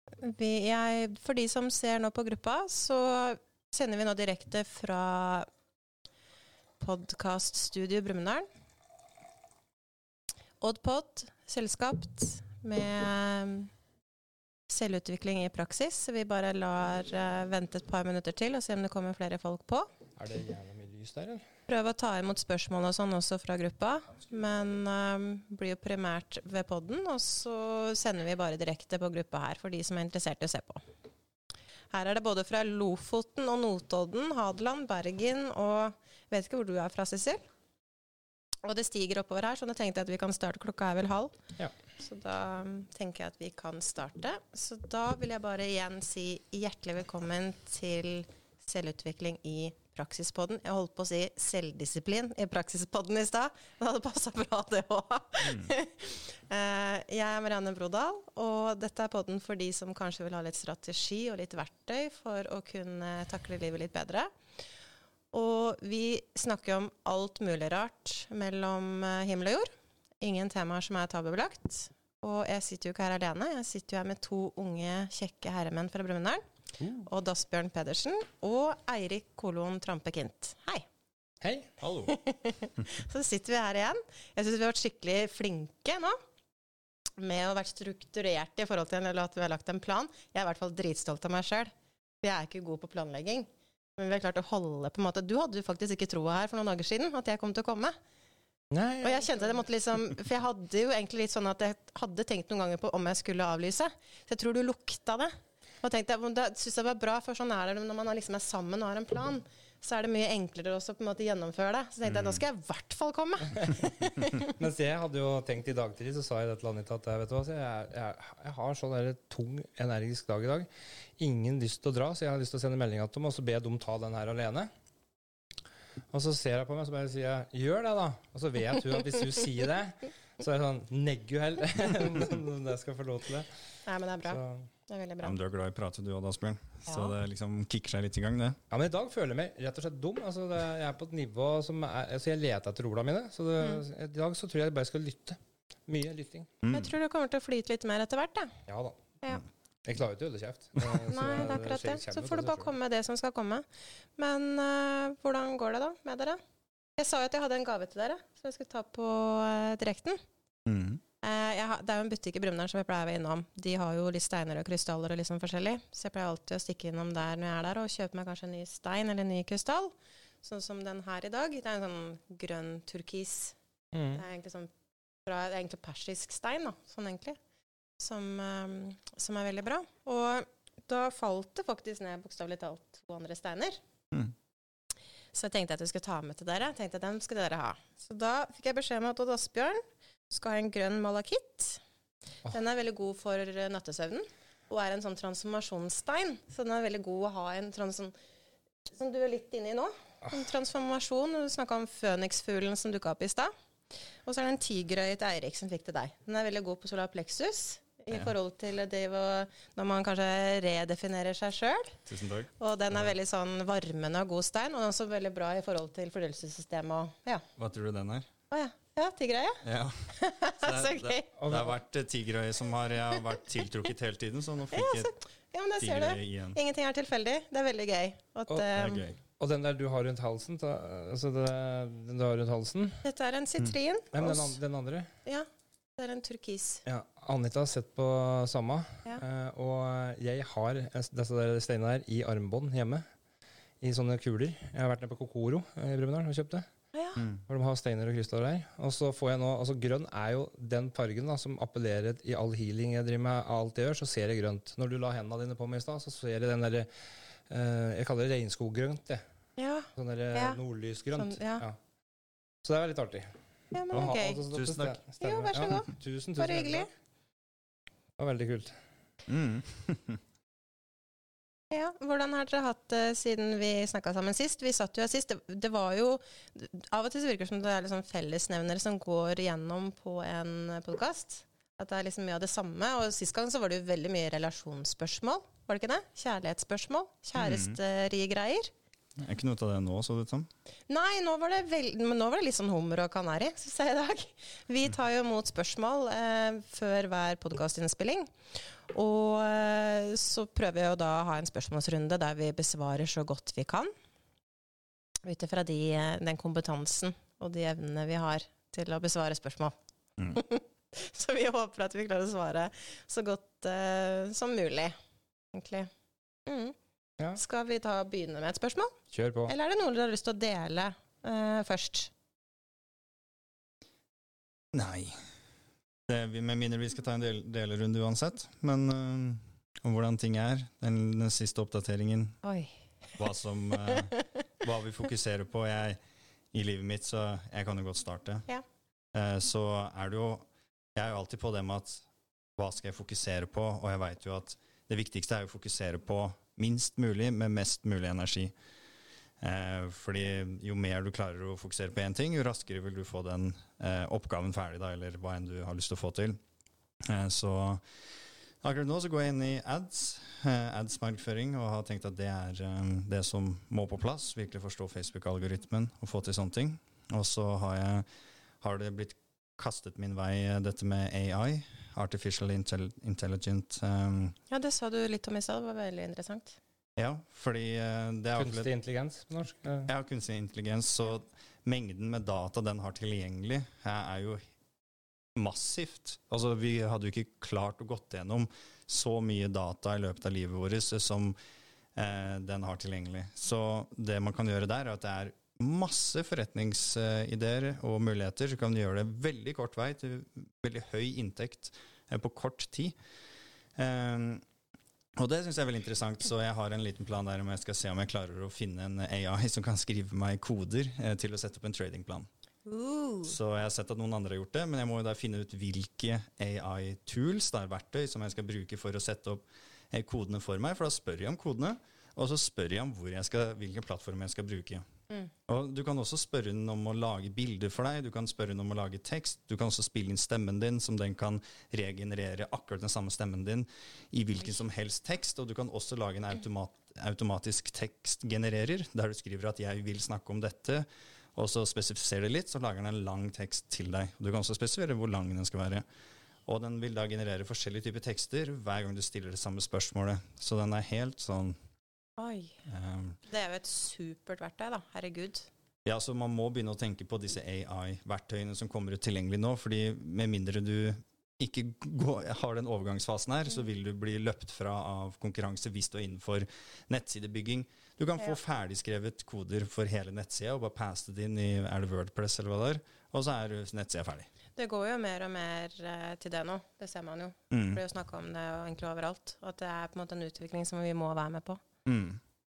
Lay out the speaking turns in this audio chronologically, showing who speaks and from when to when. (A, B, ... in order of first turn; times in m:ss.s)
0:00.2-0:05.5 A
0:06.8-0:08.5 A
0:10.6-0:13.7 A
0:14.7-0:19.9 A
0:20.2-0:21.4 B
0:21.7-0:30.8 A
0:31.9-0:37.4 A
0:38.6-0:41.4 A
0:42.0-1:04.3 A
0:55.4-0:55.7 C
1:05.3-1:09.7 A
1:10.2-1:16.4 A
1:17.0-1:20.8 A
1:21.4-1:21.7 B
1:21.8-1:22.1 C
1:22.1-1:26.2 A
1:27.2-1:38.0 A
1:38.7-1:39.5 B
1:39.0-1:54.5 A
1:52.1-1:52.4 C
1:54.4-2:00.7 B
2:01.2-2:04.7 B
2:06.1-2:13.5 B
2:13.9-2:15.3 A
2:14.3-2:14.7 B
2:15.2-2:18.6 C
2:16.9-2:17.1 A
2:18.7-2:26.5 B
2:26.6-2:26.9 C
2:26.7-2:28.6 A
2:28.7-2:29.0 B
2:29.9-2:32.7 B
2:31.1-2:33.7 A
2:34.2-2:36.4 A
2:37.0-2:40.2 A
2:40.7-2:41.0 C
2:41.2-2:53.6 A
2:53.9-2:54.2 B
2:54.1-2:54.7 A
2:55.3-2:57.4 A
2:58.0-3:03.8 A
3:05.3-3:11.8 A
3:12.5-3:18.1 A
3:18.9-3:23.5 A
3:24.2-3:32.0 A
3:32.1-3:32.5 C
3:32.6-3:37.4 A
3:37.6-3:38.3 C
3:38.5-3:41.3 A
3:39.6-3:45.1 C
3:41.4-3:41.8 B
3:44.7-3:49.0 A
3:45.8-3:46.6 C
3:48.7-3:49.2 C
3:49.4-3:53.0 B
3:53.0-3:54.6 A
3:54.1-3:55.1 B
3:55.3-3:56.8 A
3:56.9-4:03.0 B
4:03.8-4:06.7 B
4:06.9-4:07.2 A
4:07.5-4:16.9 B
4:17.5-4:19.2 B
4:19.6-4:20.6 A
4:20.0-4:21.8 B
4:21.2-4:21.6 A
4:22.6-4:23.3 B
4:23.7-4:24.4 A
4:23.9-4:26.9 B
4:24.5-4:25.0 C
4:25.2-4:26.9 A
4:28.2-4:28.8 B
4:29.3-4:30.2 C
4:31.7-4:48.7 A
4:47.4-4:47.8 C
4:49.2-4:50.5 C
4:50.9-4:58.3 A
4:58.9-5:03.9 A
5:05.2-5:09.8 A
5:10.3-5:15.0 A
5:15.5-5:15.9 A
5:16.5-5:16.8 A
5:17.4-5:19.0 A
5:19.1-5:19.5 B
5:19.5-5:22.1 A
5:24.7-5:25.2 C
5:26.1-5:32.4 C
5:32.4-5:32.7 A
5:33.2-5:36.0 C
5:33.9-5:34.2 A
5:36.5-5:38.5 C
5:39.1-5:42.0 C
5:42.6-5:48.5 C
5:49.4-5:56.4 C
5:57.1-5:57.8 C
5:58.6-6:08.1 C
6:08.6-6:14.4 C
6:14.5-6:16.6 A
6:17.0-6:18.7 C
6:18.4-6:19.9 B
6:19.9-6:24.4 C
6:25.4-6:31.4 C
6:32.0-6:43.0 C
6:43.8-6:44.4 C
6:45.2-6:52.3 C
6:52.7-6:53.3 A
6:53.3-7:04.8 C
7:05.5-7:25.8 C
7:26.5-7:31.6 C
7:32.2-7:32.6 A
7:32.6-7:33.2 C
7:33.3-7:35.5 A
7:35.9-7:54.3 C
7:54.6-8:01.6 A
7:57.5-7:57.8 C
8:01.9-8:02.2 C